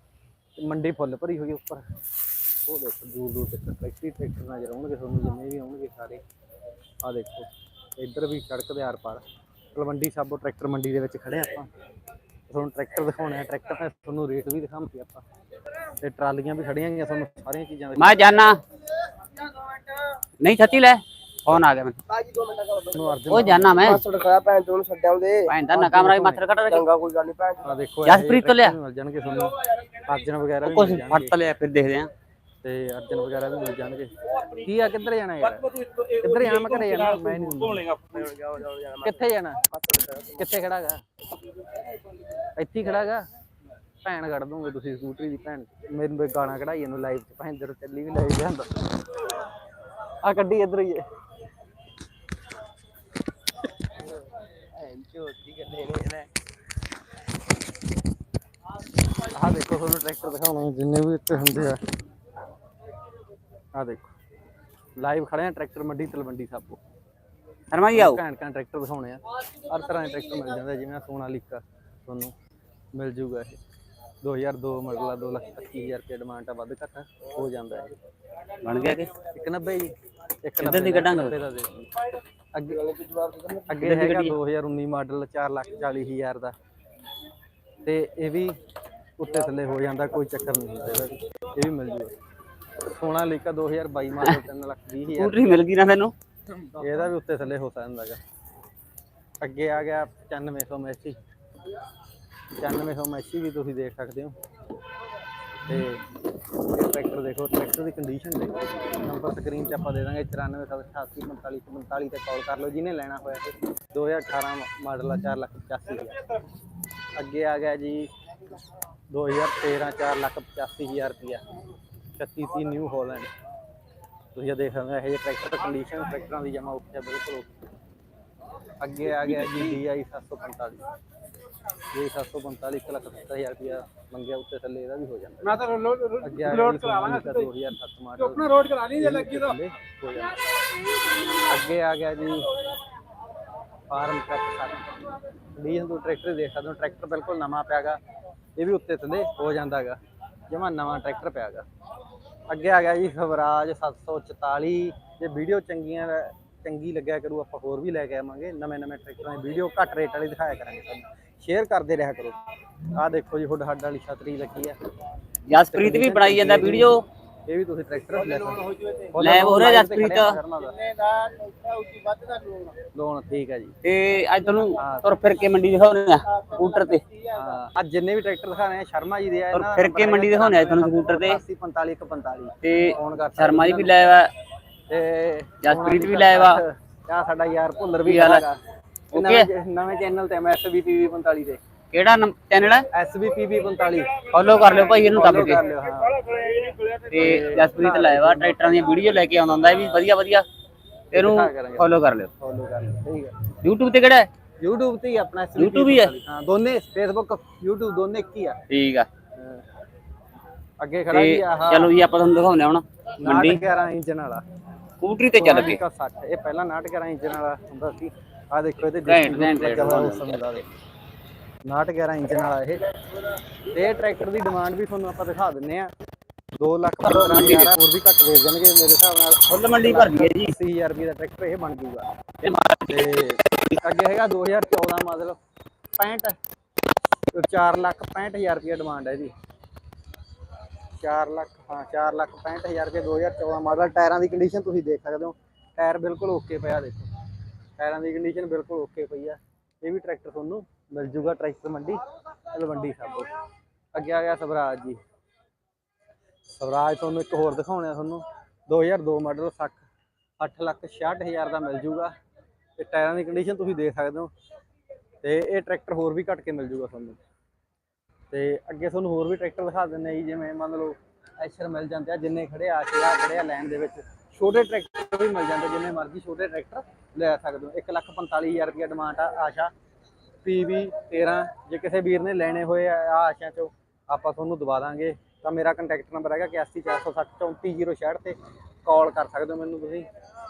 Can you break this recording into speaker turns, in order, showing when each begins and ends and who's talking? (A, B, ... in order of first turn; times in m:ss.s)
0:00.6-0:01.8 A
0:02.6-0:06.2 A
0:07.0-0:09.2 A
0:09.7-0:11.7 A
0:12.5-0:15.2 A
0:16.0-0:18.2 A
0:18.0-0:18.6 B
0:20.4-0:22.0 B
0:22.1-0:23.0 C
0:22.9-0:23.8 A
0:23.3-0:24.0 B
0:23.8-0:25.5 C
0:25.5-0:26.9 B
0:25.7-0:26.4 A
0:26.7-0:27.6 C
0:27.6-0:31.3 A
0:28.0-0:28.8 B
0:30.6-0:32.1 B
0:32.6-0:38.0 A
0:38.0-0:39.2 C
0:39.0-0:39.7 A
0:39.7-0:40.4 C
0:40.2-0:41.0 A
0:42.6-0:43.2 A
0:44.0-0:49.4 A
0:50.2-0:51.0 A
0:54.7-0:56.3 C
0:59.2-1:01.8 A
1:03.7-1:04.1 A
1:05.0-1:06.8 A
1:07.7-1:08.2 B
1:07.9-1:12.3 A
1:12.9-1:13.6 A
1:14.2-1:17.9 A
1:18.6-1:19.1 B
1:19.3-1:19.9 A
1:20.4-1:23.0 A
1:20.6-1:21.3 B
1:23.0-1:23.6 C
1:23.6-1:26.5 A
1:23.7-1:24.4 B
1:27.8-1:28.6 A
1:29.2-1:32.1 A
1:32.8-1:35.6 A
1:35.1-1:36.1 B
1:36.7-1:38.2 A
1:39.4-1:41.2 A
1:42.6-1:44.4 A
1:45.7-1:46.0 A
1:46.7-1:56.2 A
1:57.2-1:58.1 A
1:59.1-2:01.4 A
2:02.2-2:03.3 A
2:04.3-2:07.6 A
2:08.8-2:10.9 A
2:11.9-2:20.4 A
2:21.4-2:22.5 A
2:23.9-2:28.0 A
2:28.6-2:30.0 A
2:30.5-2:31.6 A
2:32.5-2:44.8 A
2:45.5-2:47.0 B
2:45.7-2:50.9 A
2:49.2-2:50.4 B
2:50.9-2:52.7 C
2:52.9-2:53.7 A
2:53.8-2:57.0 B
2:54.8-2:55.1 A
2:57.3-3:03.9 A
2:59.5-3:01.4 B
3:02.6-3:04.3 B
3:04.9-3:08.6 A
3:05.6-3:06.6 B
3:08.0-3:08.4 B
3:09.1-3:11.6 A
3:09.1-3:09.4 B
3:11.9-3:12.8 B
3:12.9-3:20.0 A
3:14.3-3:15.6 B
3:17.1-3:20.4 B
3:21.1-3:23.5 A
3:21.1-3:22.3 B
3:23.6-3:24.3 B
3:24.6-3:28.6 A
3:25.6-3:26.1 B
3:28.7-3:29.1 B
3:29.4-3:29.6 A
3:30.8-3:31.9 A
3:31.1-3:33.6 B
3:33.2-3:34.4 A
3:35.0-3:35.8 B
3:35.4-3:40.6 A
3:39.0-3:40.6 B
3:41.6-3:42.9 A
3:43.7-3:45.9 A
3:46.6-3:52.1 A
3:47.0-3:47.7 B
3:49.5-3:50.6 B
3:52.4-3:53.1 B
3:52.9-3:55.4 A
3:56.0-3:56.4 A
3:57.3-3:59.3 A
4:01.0-4:07.1 A
4:07.8-4:12.0 A
4:12.5-4:13.3 A
4:13.9-4:15.0 A
4:16.6-4:19.8 A
4:20.4-4:22.1 A
4:22.8-4:24.3 A
4:25.2-4:27.2 A
4:28.3-4:39.7 A
4:40.4-4:50.1 A